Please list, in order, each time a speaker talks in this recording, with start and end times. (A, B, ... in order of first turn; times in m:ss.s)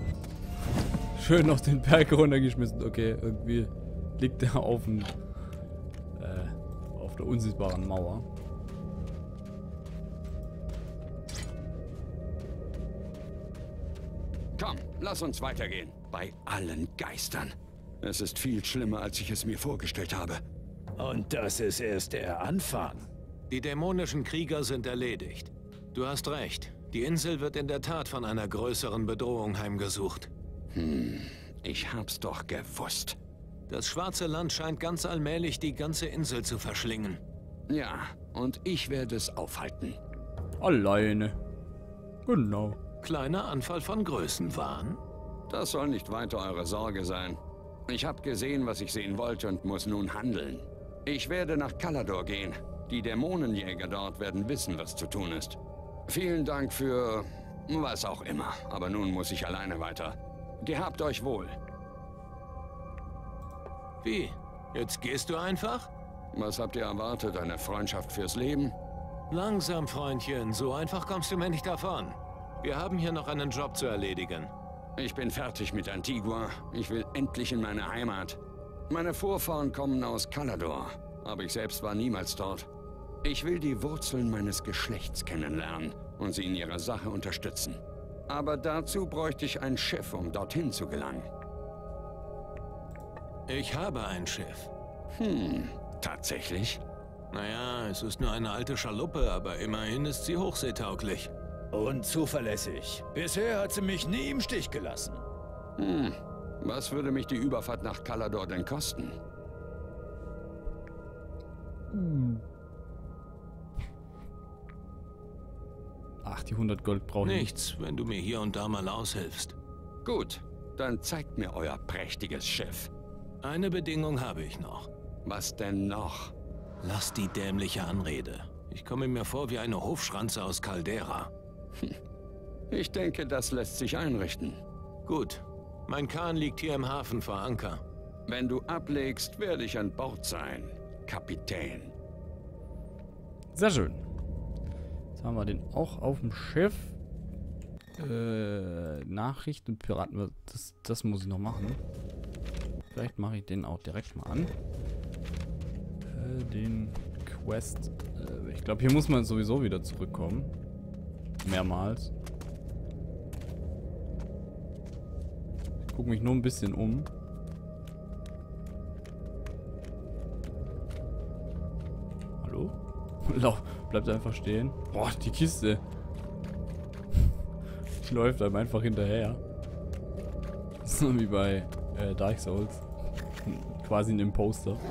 0:01.2-0:05.2 A
0:06.2-0:08.3 A
0:14.6-0:20.4 B
0:21.0-0:23.1 C
0:23.5-0:30.3 D
0:30.7-0:33.2 B
0:33.7-0:37.2 D
0:37.7-0:40.0 B
0:40.6-0:41.4 A
0:42.3-0:42.8 A
0:43.0-0:45.0 D
0:45.5-1:01.6 B
1:04.0-1:05.9 D
1:06.3-1:08.8 B
1:09.3-1:14.5 D
1:15.0-1:18.4 B
1:18.9-1:22.7 B
1:23.2-1:31.3 B
1:33.5-1:34.7 D
1:35.2-1:36.8 B
1:37.3-1:41.3 D
1:41.7-1:45.2 C
1:45.8-1:49.2 B
1:51.9-1:52.4 A
1:56.2-1:57.5 A
1:57.2-1:59.6 D
2:00.0-2:02.9 B
2:03.4-2:04.9 D
2:05.2-2:06.3 B
2:06.8-2:11.3 D
2:12.7-2:14.6 B
2:15.1-2:17.8 D
2:18.3-2:21.9 B
2:23.5-2:24.0 A
2:25.2-2:27.0 A
2:28.0-2:31.8 A
2:32.9-2:34.5 A
2:36.1-2:40.5 A
2:41.4-2:42.1 A
2:45.9-2:47.1 A
2:52.4-2:52.7 A
2:53.2-2:55.8 A
2:58.0-2:59.4 A
3:00.8-3:02.8 A
3:03.4-3:04.8 A